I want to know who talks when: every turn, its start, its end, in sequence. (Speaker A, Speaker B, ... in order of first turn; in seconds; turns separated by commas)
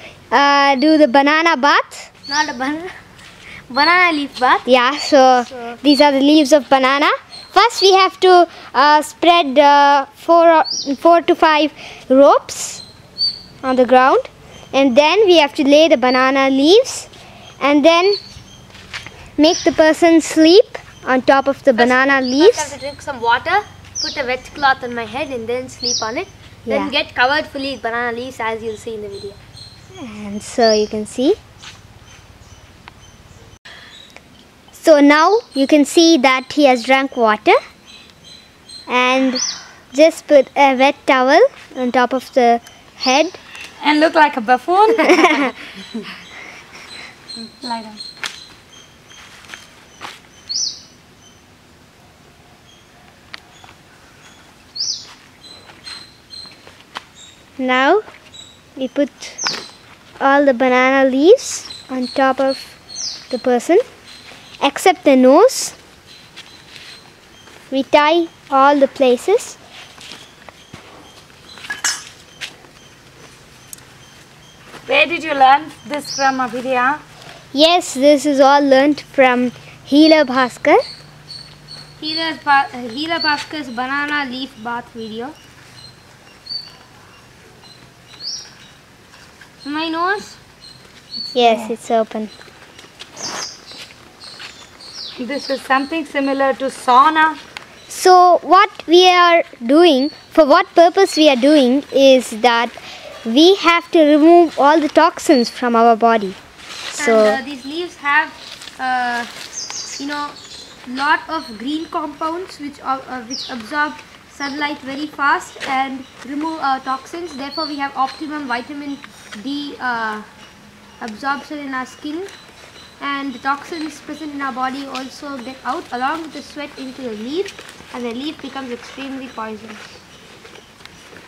Speaker A: 0.3-2.1, Speaker B: 2.3-2.9, Speaker B: 3.7-4.7, Speaker A: 4.7-12.8, Speaker A: 13.6-17.1, Speaker A: 17.6-18.2, Speaker A: 19.4-22.7, Speaker B: 21.7-29.4, Speaker A: 26.7-26.9, Speaker A: 30.0-31.4, Speaker A: 34.7-37.6, Speaker A: 38.9-43.4, Speaker C: 43.8-45.5, Speaker A: 45.1-45.5, Speaker C: 47.6-48.0, Speaker A: 57.6-58.0, Speaker A: 58.8-59.4, Speaker A: 60.2-62.8, Speaker A: 63.3-63.8, Speaker A: 64.6-65.8, Speaker A: 67.7-69.6, Speaker C: 74.8-77.0, Speaker A: 77.5-80.8, Speaker B: 82.0-85.3, Speaker B: 89.6-90.4, Speaker A: 91.3-92.3, Speaker C: 95.2-97.4, Speaker A: 97.9-106.4, Speaker A: 106.9-107.4, Speaker B: 107.0-109.3, Speaker B: 110.0-120.2, Speaker B: 121.0-122.3, Speaker B: 123.0-129.8